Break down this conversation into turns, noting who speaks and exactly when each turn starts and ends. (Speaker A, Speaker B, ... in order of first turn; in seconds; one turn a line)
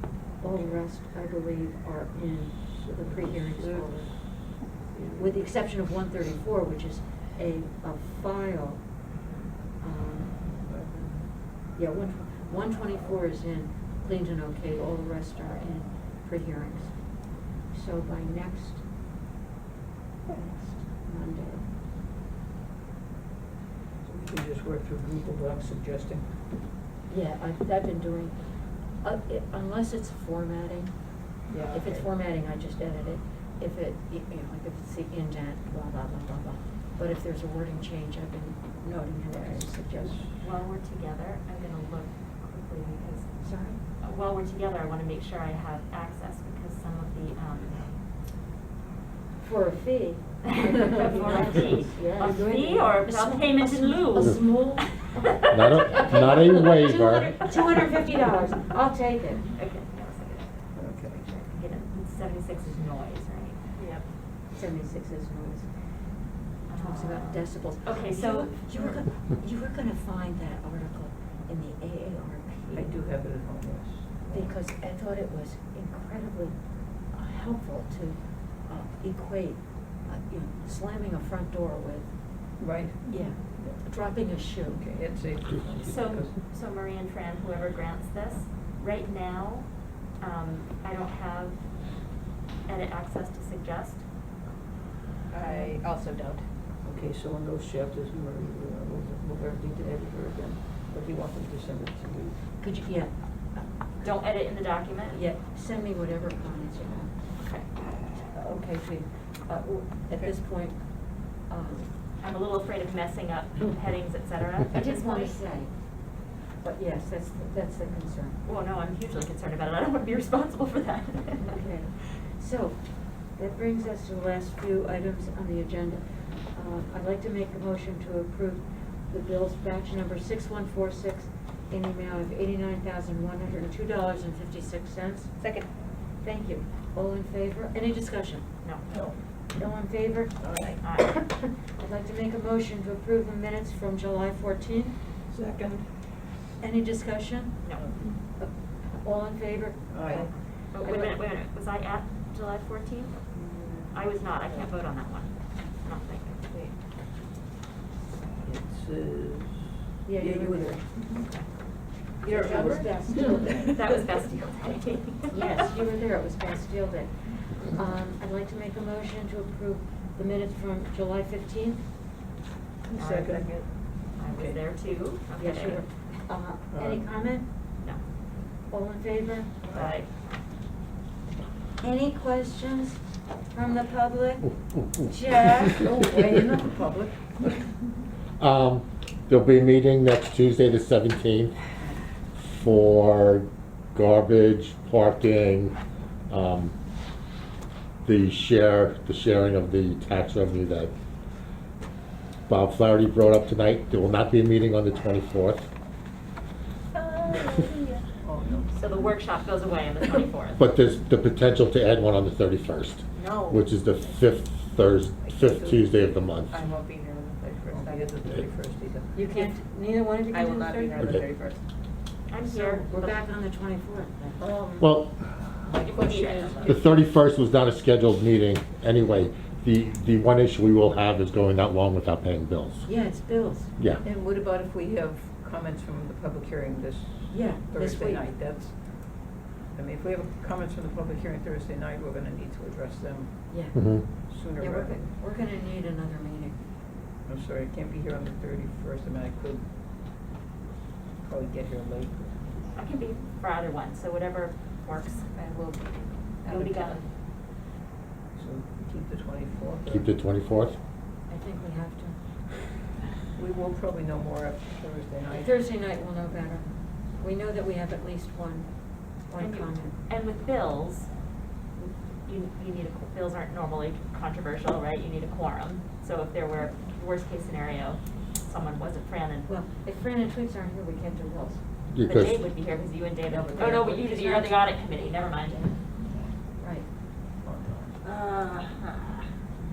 Speaker A: 0.4-4.5
Speaker B: 0.4-0.8
Speaker B: 2.7-5.5
Speaker A: 5.2-8.9
Speaker A: 9.8-10.5
Speaker B: 10.6-11.2
Speaker A: 11.7-18.8
Speaker A: 20.3-21.7
Speaker B: 24.0-26.3
Speaker A: 27.1-28.4
Speaker A: 28.9-30.9
Speaker B: 31.5-32.1
Speaker A: 31.7-40.3
Speaker B: 39.3-40.3
Speaker C: 40.4-43.4
Speaker A: 43.4-43.8
Speaker C: 44.0-48.0
Speaker A: 49.4-59.5
Speaker C: 50.7-54.5
Speaker D: 55.5-57.5
Speaker C: 55.6-56.1
Speaker C: 59.5-63.6
Speaker B: 60.8-61.2
Speaker E: 63.8-64.0
Speaker A: 64.5-65.7
Speaker C: 66.7-68.9
Speaker A: 66.8-72.9
Speaker B: 72.7-74.5
Speaker A: 74.3-76.6
Speaker A: 77.1-82.1
Speaker B: 82.6-83.8
Speaker A: 83.0-84.8
Speaker B: 84.7-86.3
Speaker C: 85.8-92.0
Speaker C: 92.7-94.0
Speaker E: 95.3-96.4
Speaker B: 96.8-102.4
Speaker A: 102.6-104.1
Speaker C: 104.0-105.2
Speaker A: 105.1-107.2
Speaker C: 107.4-107.7
Speaker A: 108.3-111.8
Speaker C: 112.2-115.4
Speaker A: 114.7-115.7
Speaker A: 116.6-118.4
Speaker C: 118.4-121.6
Speaker A: 121.4-122.8
Speaker A: 123.3-135.3
Speaker E: 135.4-135.7
Speaker A: 136.2-138.4
Speaker B: 138.9-139.2
Speaker A: 139.6-145.0
Speaker B: 140.4-140.8
Speaker C: 140.8-141.2
Speaker B: 145.3-145.9
Speaker A: 146.6-147.6
Speaker B: 147.8-148.0
Speaker A: 148.3-150.2
Speaker B: 149.9-150.3
Speaker C: 150.1-153.2
Speaker A: 150.8-151.2
Speaker B: 153.3-153.9
Speaker C: 153.9-156.5
Speaker B: 158.4-161.2
Speaker A: 160.0-160.8
Speaker B: 162.2-163.7
Speaker A: 162.2-163.7
Speaker C: 163.7-165.7
Speaker A: 165.3-171.8
Speaker B: 172.9-173.7
Speaker C: 172.9-173.5
Speaker C: 174.2-175.9
Speaker B: 174.3-174.6
Speaker A: 175.3-177.5
Speaker B: 176.7-177.1
Speaker A: 178.7-179.6
Speaker B: 179.7-179.9
Speaker C: 179.7-180.1
Speaker A: 181.8-183.0
Speaker A: 183.5-187.5
Speaker D: 188.4-191.6
Speaker D: 192.4-195.8
Speaker D: 196.3-196.7
Speaker D: 198.0-200.9
Speaker D: 202.5-205.7
Speaker E: 206.9-208.0
Speaker B: 208.2-209.1
Speaker C: 208.7-210.6
Speaker D: 210.6-216.6
Speaker E: 213.1-213.6
Speaker B: 215.2-215.9
Speaker E: 216.5-218.2
Speaker B: 217.6-219.2
Speaker A: 219.1-221.2
Speaker E: 220.3-221.6
Speaker C: 222.3-223.2
Speaker A: 222.4-224.4
Speaker B: 224.4-227.0
Speaker D: 224.8-225.2
Speaker C: 225.7-226.7
Speaker D: 226.7-232.8
Speaker A: 232.8-233.7
Speaker B: 234.0-238.9
Speaker A: 237.3-238.2
Speaker B: 239.7-243.4
Speaker A: 243.5-243.9
Speaker D: 243.7-244.1
Speaker B: 244.3-245.1
Speaker A: 244.6-246.6
Speaker B: 247.3-249.7
Speaker B: 251.2-252.7
Speaker C: 252.7-255.7
Speaker E: 255.4-257.0
Speaker C: 256.4-257.0
Speaker B: 258.3-260.1
Speaker D: 259.9-260.8
Speaker A: 261.3-262.2
Speaker B: 263.3-265.6
Speaker A: 265.3-268.7
Speaker A: 269.3-269.9
Speaker C: 269.4-271.1
Speaker C: 272.2-279.5
Speaker A: 279.5-281.6
Speaker D: 281.9-282.4
Speaker C: 282.0-285.7
Speaker A: 283.5-284.5
Speaker A: 286.6-286.9
Speaker B: 287.4-288.0